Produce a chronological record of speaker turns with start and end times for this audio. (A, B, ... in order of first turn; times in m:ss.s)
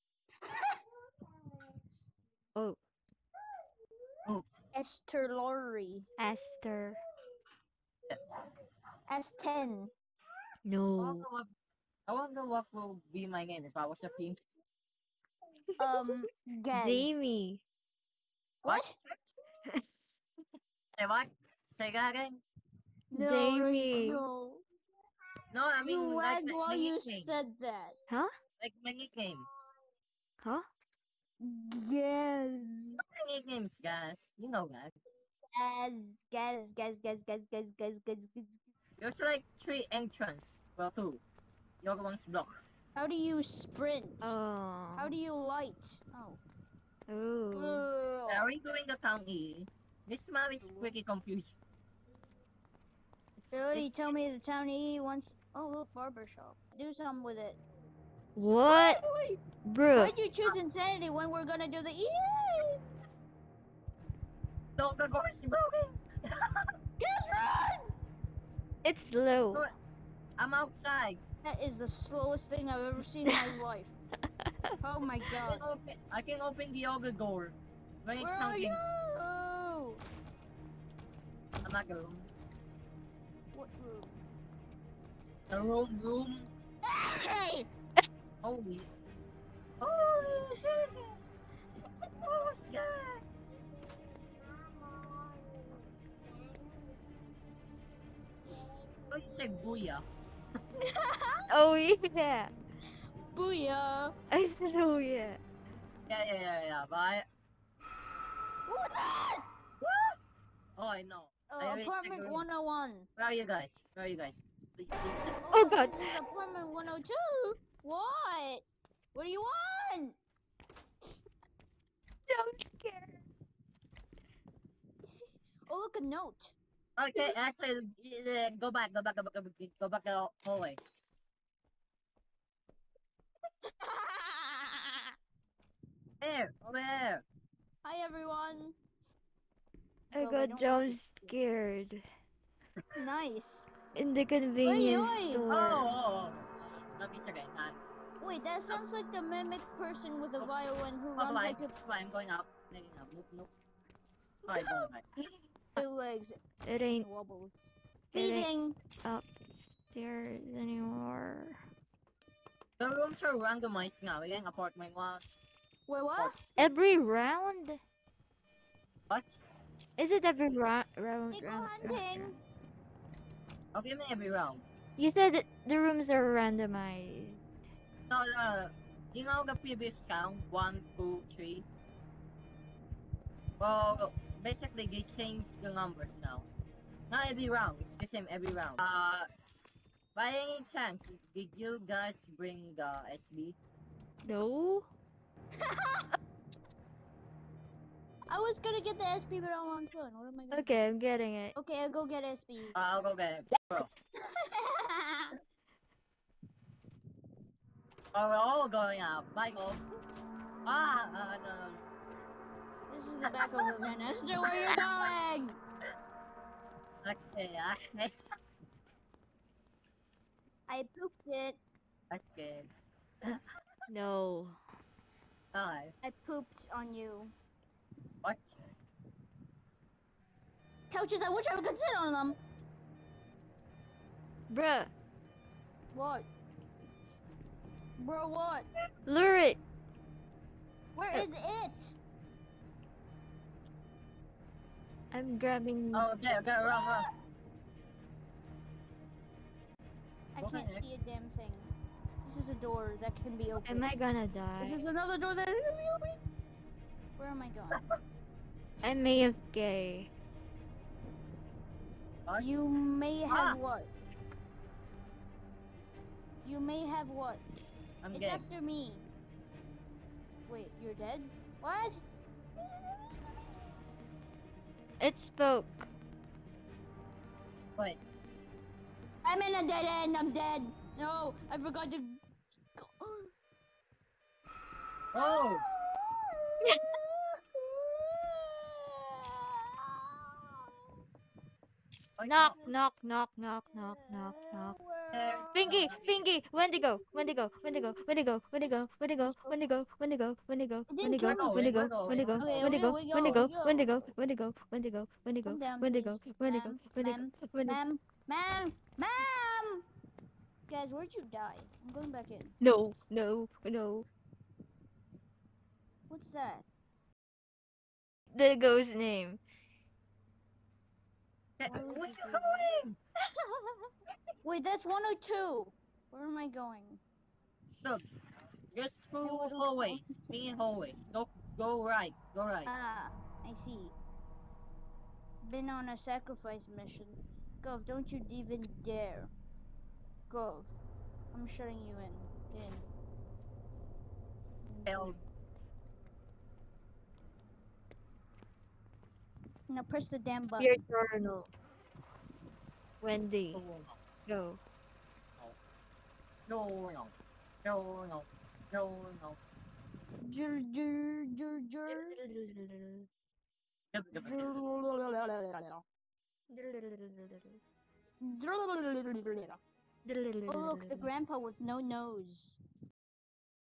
0:00.4-0:00.8 A
0:04.7-0:06.1 A
0:06.2-0:07.0 B
0:09.1-0:09.9 A
0:10.7-0:11.3 B
0:11.0-0:11.5 C
0:12.1-0:14.4 C
0:15.8-0:17.2 A
0:16.7-0:17.6 B
0:18.6-0:19.2 C
0:18.6-0:18.9 A
0:21.0-0:22.4 C
0:23.1-0:24.6 A
0:23.2-0:24.2 B
0:25.5-0:27.3 C
0:25.8-0:28.0 A
0:28.6-0:29.5 C
0:31.4-0:33.0 A
0:33.1-0:34.9 C
0:35.5-0:38.6 A
0:39.0-0:41.2 C
0:41.8-0:42.6 C
0:43.0-0:44.4 A
0:44.2-0:45.1 B
0:44.9-0:46.4 A
0:47.1-0:47.9 B
0:47.5-0:48.5 A
0:48.3-0:51.6 C
0:53.4-0:53.9 C
0:53.5-0:57.6 A
0:58.4-0:59.0 B
0:58.6-0:59.4 A
0:59.6-1:00.1 B
1:00.0-1:02.8 A
1:04.8-1:06.7 C
1:07.0-1:07.8 A
1:08.8-1:09.6 B
1:10.4-1:11.2 C
1:11.4-1:13.9 A
1:14.8-1:15.6 A
1:15.4-1:18.8 C
1:18.2-1:20.0 A
1:21.6-1:22.3 C
1:23.5-1:24.2 A
1:25.5-1:26.5 C
1:26.8-1:27.7 A
1:28.4-1:28.9 C
1:29.8-1:31.2 C
1:32.2-1:33.2 C
1:39.1-1:40.0 C
1:40.8-1:41.5 A
1:41.5-1:42.5 B
1:43.2-1:44.1 A
1:44.3-1:45.4 B
1:46.1-1:47.2 C
1:48.7-1:49.4 A
1:49.8-1:50.2 C
1:50.8-1:52.4 C
1:51.5-1:53.1 A
1:53.2-1:55.3 C
1:55.4-2:00.2 A
1:55.5-1:56.0 B
2:02.3-2:03.2 B
2:05.7-2:06.6 A
2:07.0-2:10.8 C
2:13.8-2:15.1 A
2:16.2-2:17.2 C
2:17.8-2:18.8 A
2:20.1-2:22.0 B
2:20.1-2:21.4 A
2:23.0-2:23.7 A
2:24.0-2:25.9 B
2:24.6-2:25.4 A
2:25.5-2:27.8 C
2:28.2-2:31.7 A
2:31.2-2:33.5 C
2:34.4-2:35.0 C
2:34.5-2:34.9 A
2:35.8-2:36.3 A
2:36.6-2:37.1 B
2:37.0-2:37.6 A
2:38.1-2:38.5 B
2:38.1-2:38.8 A
2:39.9-2:41.6 B
2:42.8-2:45.2 C
2:45.9-2:46.4 A
2:46.6-2:47.8 B
2:50.0-2:52.4 B
2:51.3-2:52.4 A
2:53.8-2:54.6 C
2:55.0-2:57.4 B
2:58.1-3:01.6 C
3:03.6-3:06.5 C
3:07.1-3:09.3 C
3:10.2-3:13.6 C
3:14.2-3:14.9 B
3:15.6-3:16.1 A
3:18.3-3:20.8 A
3:20.5-3:21.5 B
3:21.6-3:22.7 A
3:22.7-3:23.9 C
3:24.3-3:25.4 A
3:28.1-3:29.8 C
3:30.6-3:31.8 C
3:32.9-3:35.6 A
3:33.4-3:33.7 C
3:34.5-3:34.9 C
3:37.0-3:38.1 C
3:40.7-3:41.6 A
3:42.1-3:42.7 C
3:43.9-3:44.6 B
3:45.5-3:45.9 C
3:46.0-3:47.3 A
3:50.9-3:52.4 A
3:54.5-3:54.9 B
3:55.9-3:56.3 A
3:58.0-3:58.7 A
3:59.1-3:59.6 B
4:01.0-4:02.0 A
4:05.1-4:06.1 B
4:05.9-4:07.1 C
4:10.4-4:11.7 A
4:10.4-4:10.8 C
4:12.2-4:13.9 A
4:13.6-4:14.8 B
4:14.6-4:16.2 A
4:17.2-4:17.8 A
4:18.8-4:20.1 B
4:22.4-4:23.9 A
4:23.3-4:23.6 C
4:26.4-4:27.4 A
4:28.0-4:28.5 C
4:28.1-4:29.0 A
4:30.5-4:32.0 A
4:35.0-4:35.9 B
4:39.2-4:42.2 A
4:42.8-4:43.3 A
4:45.1-4:45.6 C
4:45.2-4:50.8 A
4:52.2-4:52.6 C
4:52.2-4:54.8 B
4:52.5-4:52.8 A
4:53.7-4:55.7 A
4:55.1-4:56.2 C
4:55.5-5:07.8 B
4:56.8-4:58.0 A
4:58.6-4:59.6 A
5:00.9-5:01.7 A
5:01.2-5:03.5 C
5:02.3-5:04.0 A
5:05.5-5:09.8 A
5:10.7-5:12.6 A
5:12.6-5:14.1 B
5:16.1-5:16.6 A
5:18.3-5:19.4 B
5:21.6-5:23.0 C
5:21.7-5:22.6 A
5:24.4-5:27.0 A
5:28.7-5:32.7 C
5:29.2-5:30.3 A
5:32.6-5:34.0 A
5:35.4-5:39.3 A
5:40.3-5:40.8 A
5:41.3-5:42.9 A
5:44.7-5:45.2 B
5:44.9-5:45.2 C
5:49.7-5:50.7 A
5:50.6-5:51.5 B
5:53.0-5:53.6 B
5:53.5-5:54.0 C
5:54.3-5:54.6 B
5:56.5-5:57.1 C
5:57.6-5:59.4 C
6:00.2-6:02.2 A
6:01.9-6:03.1 B
6:03.9-6:04.5 C
6:04.2-6:05.8 A
6:06.5-6:07.6 B
6:08.2-6:09.6 A
6:10.1-6:11.1 B
6:10.5-6:12.6 A